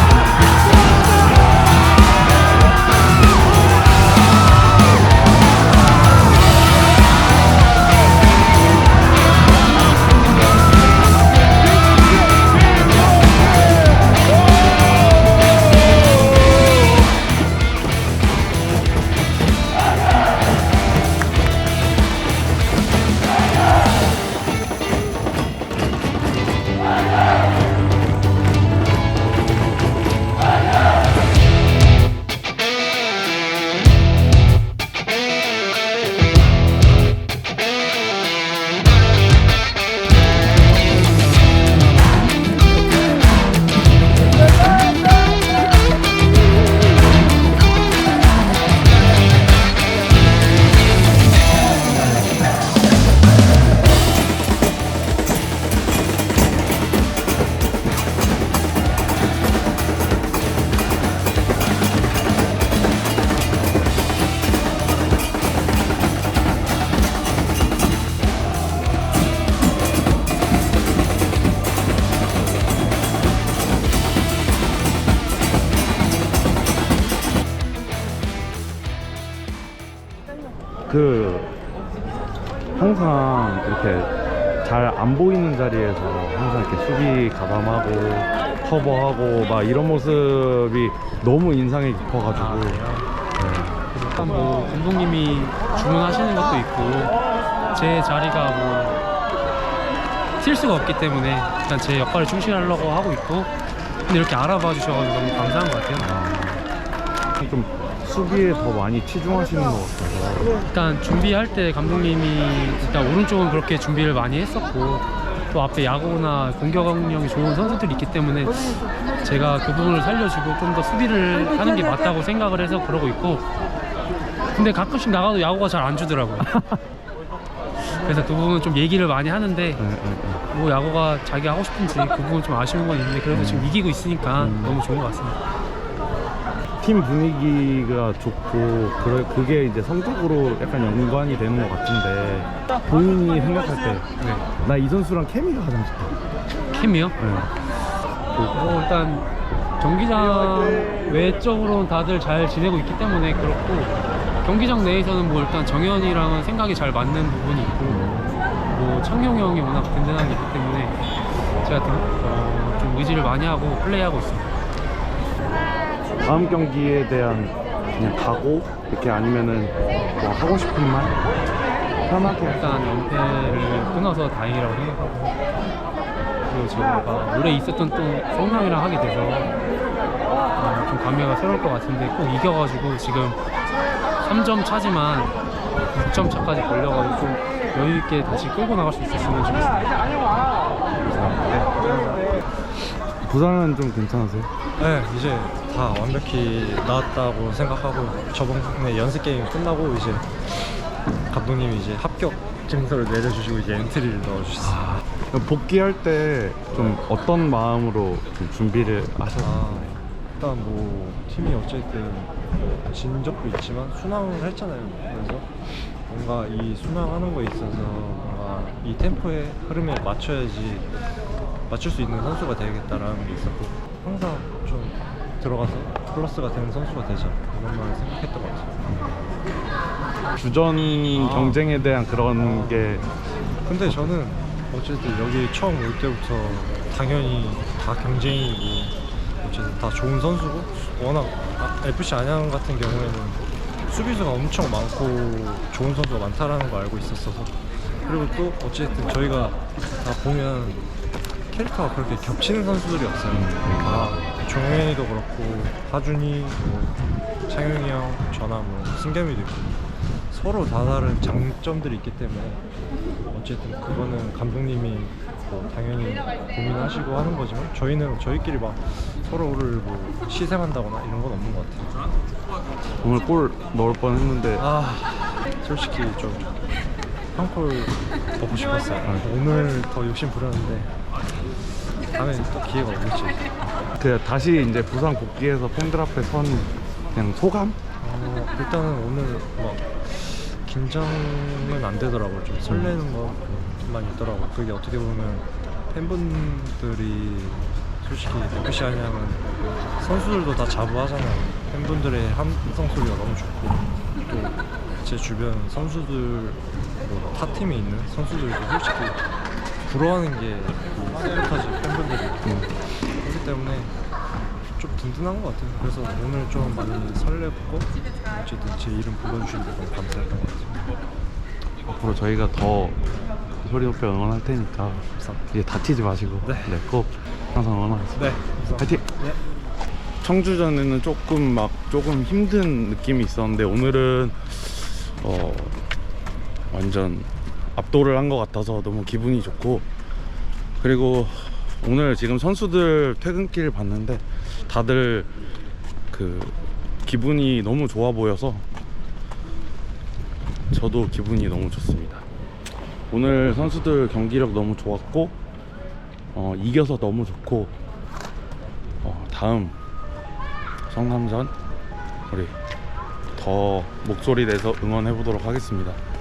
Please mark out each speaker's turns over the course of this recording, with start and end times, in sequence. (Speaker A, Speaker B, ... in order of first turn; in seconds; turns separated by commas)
Speaker A: 80.9-81.5, Speaker A: 82.7-92.8, Speaker B: 92.3-93.1, Speaker A: 93.3-93.8, Speaker B: 93.9-99.0, Speaker B: 100.4-103.5, Speaker B: 104.0-106.1, Speaker A: 106.0-106.6, Speaker A: 107.3-110.5, Speaker B: 110.6-123.4, Speaker B: 124.5-126.5, Speaker A: 126.4-126.8, Speaker B: 127.9-129.8, Speaker A: 129.8-130.4, Speaker B: 130.5-135.4, Speaker A: 133.3-133.7, Speaker A: 134.3-134.8, Speaker A: 136.8-144.1, Speaker B: 144.2-144.5, Speaker A: 144.6-146.2, Speaker B: 146.7-147.2, Speaker A: 147.2-147.5, Speaker A: 148.3-148.8, Speaker B: 148.5-158.1, Speaker A: 157.8-158.3, Speaker B: 158.7-161.0, Speaker B: 161.6-164.5, Speaker A: 166.2-171.2, Speaker A: 172.1-172.9, Speaker B: 172.3-175.4, Speaker B: 176.5-179.5, Speaker B: 180.5-183.4, Speaker B: 184.2-185.3, Speaker B: 185.9-189.9, Speaker C: 191.1-192.3, Speaker A: 193.2-194.5, Speaker C: 194.8-200.8, Speaker C: 201.3-204.8, Speaker A: 204.6-210.0, Speaker C: 209.4-220.9, Speaker C: 221.7-228.7, Speaker A: 228.8-229.2, Speaker A: 230.3-233.0, Speaker C: 231.1-231.6, Speaker C: 232.4-233.1, Speaker C: 233.6-250.9, Speaker C: 251.5-262.7, Speaker A: 253.3-254.3, Speaker C: 263.3-271.9, Speaker A: 273.0-274.6, Speaker C: 274.6-276.5, Speaker C: 277.3-281.0, Speaker C: 282.0-283.5, Speaker A: 283.9-287.8, Speaker C: 288.0-309.2, Speaker A: 292.7-293.0, Speaker C: 309.8-313.9, Speaker A: 312.4-312.7, Speaker C: 314.7-320.9, Speaker A: 321.8-329.1, Speaker C: 326.4-326.8, Speaker C: 328.1-329.4, Speaker A: 330.2-335.8, Speaker A: 336.7-339.9, Speaker A: 340.8-345.3, Speaker A: 346.1-348.6, Speaker A: 350.7-352.2, Speaker A: 353.1-355.4, Speaker A: 356.3-357.7, Speaker A: 359.0-359.8, Speaker A: 360.9-361.5, Speaker A: 362.3-362.5, Speaker A: 363.4-366.0